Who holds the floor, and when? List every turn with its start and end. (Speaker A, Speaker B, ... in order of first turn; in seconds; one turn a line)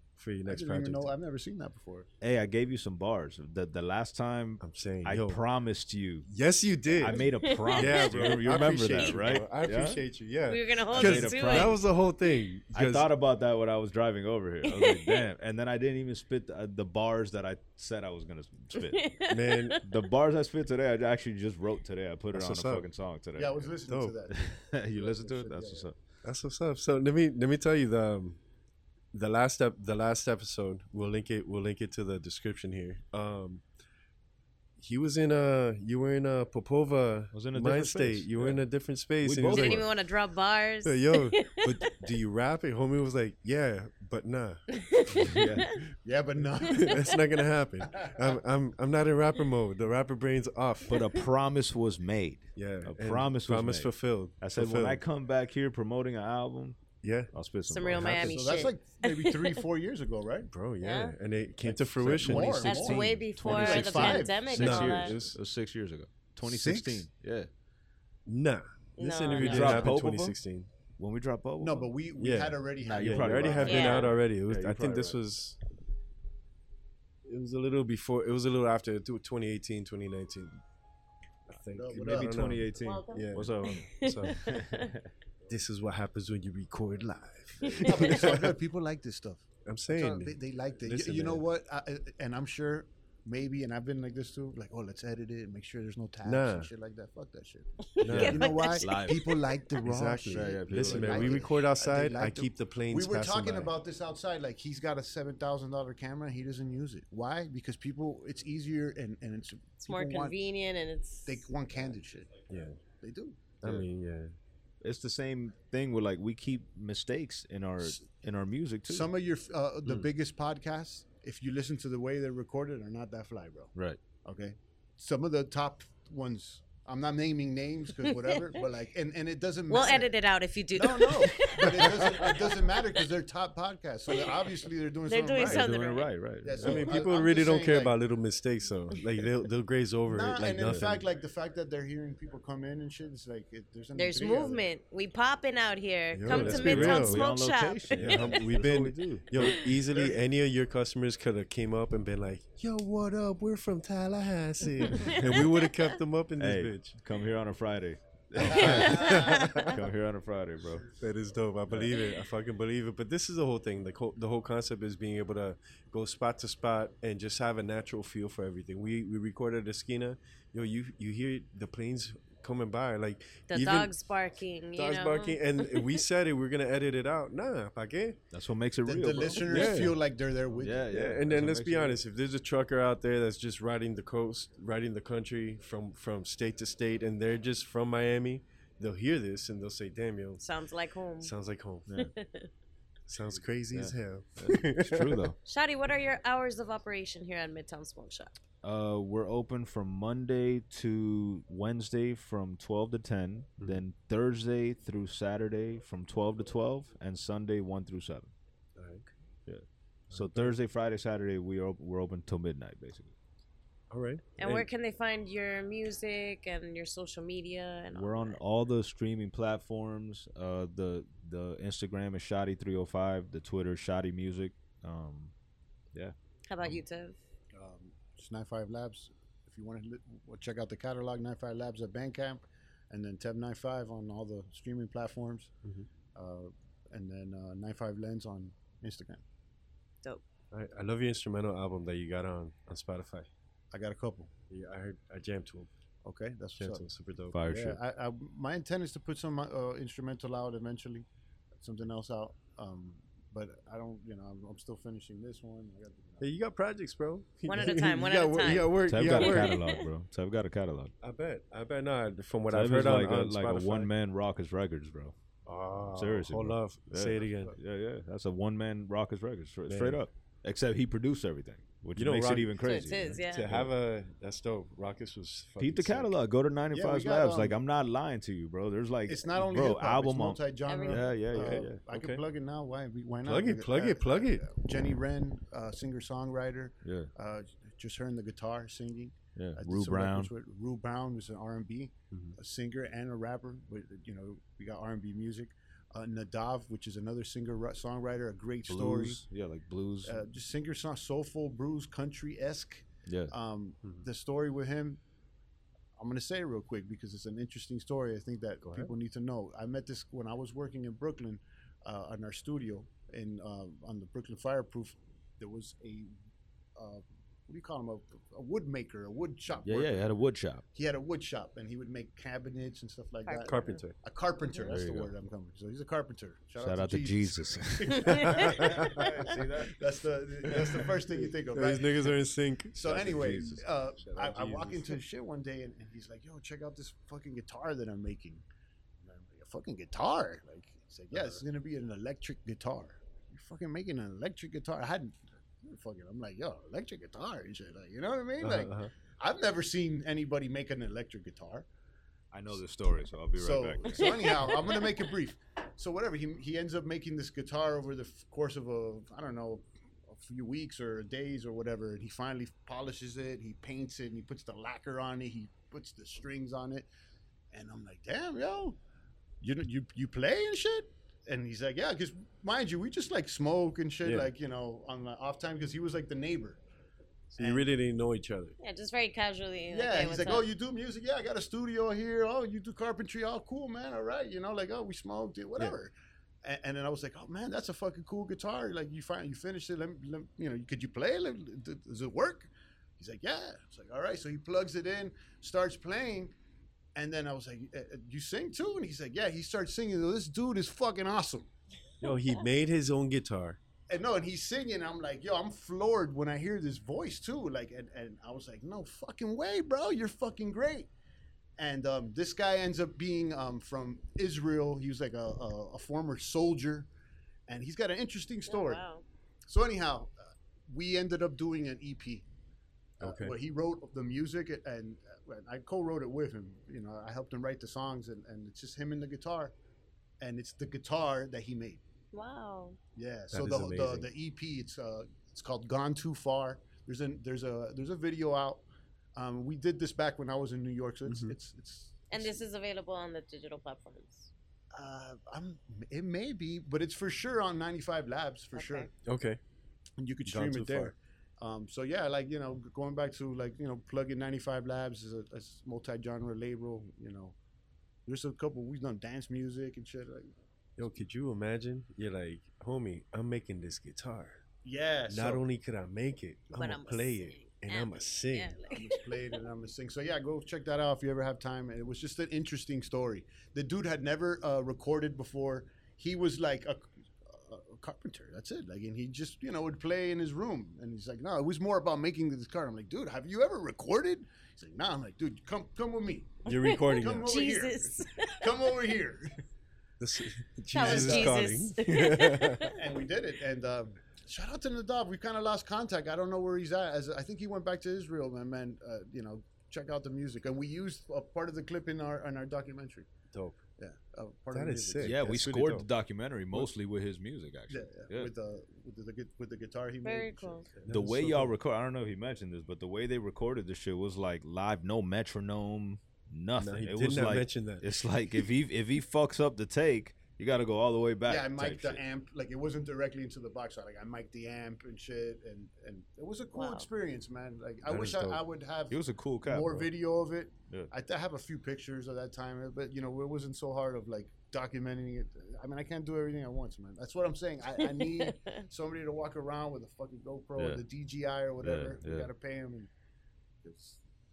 Speaker A: 0.2-1.1
Speaker B: 0.5-2.1
Speaker C: 2.2-6.3
Speaker A: 4.6-5.4
Speaker A: 6.3-13.1
Speaker C: 7.0-10.0
Speaker D: 7.1-8.2
Speaker D: 10.5-11.8
Speaker C: 10.9-11.8
Speaker C: 12.7-19.0
Speaker D: 14.6-15.2
Speaker D: 18.7-19.9
Speaker A: 19.3-19.8
Speaker C: 19.8-23.7
Speaker A: 22.3-22.9
Speaker B: 23.3-25.9
Speaker A: 23.9-24.1
Speaker C: 24.3-26.0
Speaker A: 26.2-28.4
Speaker A: 29.1-33.6
Speaker A: 34.8-39.8
Speaker C: 37.3-38.6
Speaker C: 39.2-39.9
Speaker D: 39.5-41.8
Speaker A: 40.8-45.4
Speaker D: 44.7-45.7
Speaker C: 45.2-45.7
Speaker B: 46.0-47.1
Speaker A: 46.6-51.0
Speaker D: 46.8-47.1
Speaker B: 47.9-48.2
Speaker C: 50.9-56.8
Speaker A: 52.5-55.0
Speaker A: 57.0-57.3
Speaker C: 57.3-58.4
Speaker D: 57.7-59.6
Speaker B: 58.1-60.5
Speaker A: 60.5-65.4
Speaker D: 60.8-61.1
Speaker B: 61.7-64.4
Speaker C: 62.0-67.5
Speaker D: 62.6-65.2
Speaker B: 66.4-67.0
Speaker A: 68.3-70.7
Speaker D: 69.0-69.9
Speaker C: 69.3-70.3
Speaker C: 71.0-71.9
Speaker B: 71.6-74.1
Speaker A: 72.2-75.6
Speaker C: 72.8-75.2
Speaker D: 73.7-74.1
Speaker A: 77.2-80.6
Speaker A: 81.5-84.4
Speaker B: 81.8-82.6
Speaker C: 82.0-85.1
Speaker D: 82.8-84.9
Speaker A: 85.5-88.5
Speaker B: 87.8-110.3
Speaker A: 89.6-91.4
Speaker A: 96.2-96.7
Speaker D: 98.0-99.4
Speaker A: 98.0-98.5
Speaker C: 98.0-99.4
Speaker A: 99.8-103.7
Speaker C: 100.2-101.5
Speaker D: 109.8-111.8
Speaker B: 111.2-112.4
Speaker A: 112.5-112.8
Speaker B: 113.0-113.5
Speaker A: 113.6-114.3
Speaker C: 114.8-119.1
Speaker B: 118.9-123.7
Speaker C: 123.7-124.0
Speaker B: 124.2-130.1
Speaker D: 129.7-133.0
Speaker B: 130.7-135.8
Speaker D: 134.1-134.5
Speaker D: 135.1-136.1
Speaker C: 135.4-136.9
Speaker B: 136.4-138.0
Speaker A: 136.6-141.0
Speaker B: 140.1-144.7
Speaker D: 143.9-148.3
Speaker A: 146.1-147.2
Speaker C: 146.3-149.6
Speaker A: 147.9-157.0
Speaker B: 149.9-150.2
Speaker D: 154.9-155.2
Speaker C: 156.4-160.9
Speaker A: 158.4-159.8
Speaker D: 158.4-159.7
Speaker B: 158.5-159.2
Speaker A: 161.0-173.9
Speaker C: 161.7-161.9
Speaker D: 173.5-176.0
Speaker A: 174.8-178.2
Speaker C: 178.3-179.7
Speaker B: 178.8-180.8
Speaker A: 179.5-180.0
Speaker C: 180.5-182.0
Speaker A: 180.9-190.4
Speaker D: 190.4-191.3
Speaker A: 191.2-191.9
Speaker D: 191.9-192.5
Speaker A: 193.1-195.3
Speaker C: 193.7-195.3
Speaker D: 195.4-198.3
Speaker C: 198.6-208.3
Speaker A: 208.8-209.1
Speaker C: 209.5-213.1
Speaker A: 210.1-210.5
Speaker A: 213.9-214.7
Speaker D: 214.4-218.4
Speaker C: 217.9-225.3
Speaker D: 226.4-227.2
Speaker B: 227.5-235.5
Speaker B: 236.1-239.2
Speaker A: 240.5-243.3
Speaker B: 243.7-244.3
Speaker A: 244.5-245.7
Speaker B: 246.0-246.8
Speaker A: 246.6-247.4
Speaker C: 247.3-247.8
Speaker B: 247.5-251.1
Speaker B: 251.6-256.3
Speaker A: 256.2-259.6
Speaker D: 257.5-259.9
Speaker C: 258.8-260.9
Speaker A: 261.0-263.9
Speaker C: 262.5-265.1
Speaker A: 265.4-267.6
Speaker C: 265.9-273.7
Speaker B: 267.2-267.5
Speaker A: 269.7-270.0
Speaker A: 271.9-276.1
Speaker D: 272.6-273.5
Speaker C: 275.6-281.8
Speaker B: 276.7-277.6
Speaker B: 279.1-299.2
Speaker D: 280.6-281.1
Speaker A: 281.4-282.2
Speaker A: 283.2-284.5
Speaker C: 286.8-287.1
Speaker C: 289.4-290.3
Speaker A: 292.1-292.4
Speaker C: 298.7-300.2
Speaker B: 300.0-305.0
Speaker C: 303.1-303.3
Speaker B: 306.0-316.1
Speaker A: 308.6-308.9
Speaker B: 316.8-320.1
Speaker C: 319.6-320.6
Speaker B: 320.7-332.1
Speaker D: 323.2-323.8
Speaker A: 323.4-323.9
Speaker C: 324.6-325.1
Speaker C: 326.6-329.8
Speaker A: 328.1-329.1
Speaker D: 328.1-328.3
Speaker C: 330.4-330.8
Speaker A: 330.5-332.8
Speaker B: 332.7-338.4
Speaker C: 332.8-334.6
Speaker A: 334.1-334.8
Speaker B: 339.0-351.6
Speaker A: 348.4-348.9
Speaker C: 352.3-354.1
Speaker B: 353.4-366.9
Speaker B: 367.5-368.8
Speaker B: 369.4-376.6
Speaker A: 374.0-374.3
Speaker A: 377.3-378.6
Speaker B: 377.4-377.7
Speaker D: 378.6-380.5
Speaker B: 379.7-396.3
Speaker B: 396.9-401.5
Speaker A: 402.0-403.6
Speaker B: 403.9-410.9
Speaker B: 411.6-416.9
Speaker B: 417.5-418.8
Speaker D: 418.5-419.0
Speaker B: 419.5-420.1
Speaker B: 420.7-422.2
Speaker A: 423.0-423.3
Speaker B: 423.0-429.5
Speaker B: 430.2-431.8
Speaker D: 432.1-432.8
Speaker B: 432.9-438.6
Speaker A: 433.3-434.1
Speaker B: 439.1-442.4
Speaker A: 441.1-441.3
Speaker D: 442.1-444.3
Speaker B: 444.7-448.9
Speaker D: 448.5-448.9
Speaker A: 449.0-449.4
Speaker B: 450.0-457.3
Speaker A: 450.2-450.9
Speaker B: 458.1-460.3
Speaker A: 460.8-464.4
Speaker B: 464.6-465.4
Speaker A: 465.1-468.6
Speaker D: 466.5-469.0
Speaker B: 468.7-489.4
Speaker A: 486.4-487.3
Speaker D: 486.5-488.6
Speaker A: 490.0-492.7
Speaker D: 490.7-492.8
Speaker B: 490.8-491.4
Speaker B: 492.7-503.1
Speaker A: 503.3-503.6
Speaker B: 503.8-505.5
Speaker A: 504.5-505.9
Speaker C: 505.0-508.3
Speaker B: 507.7-510.9
Speaker D: 510.0-510.6
Speaker A: 510.8-511.5
Speaker C: 510.9-522.0
Speaker A: 516.6-517.9
Speaker B: 521.2-542.9
Speaker D: 526.5-526.9
Speaker A: 527.9-528.4
Speaker C: 528.9-529.9
Speaker D: 537.8-538.6
Speaker C: 540.5-540.8
Speaker C: 541.6-542.3
Speaker B: 543.6-544.0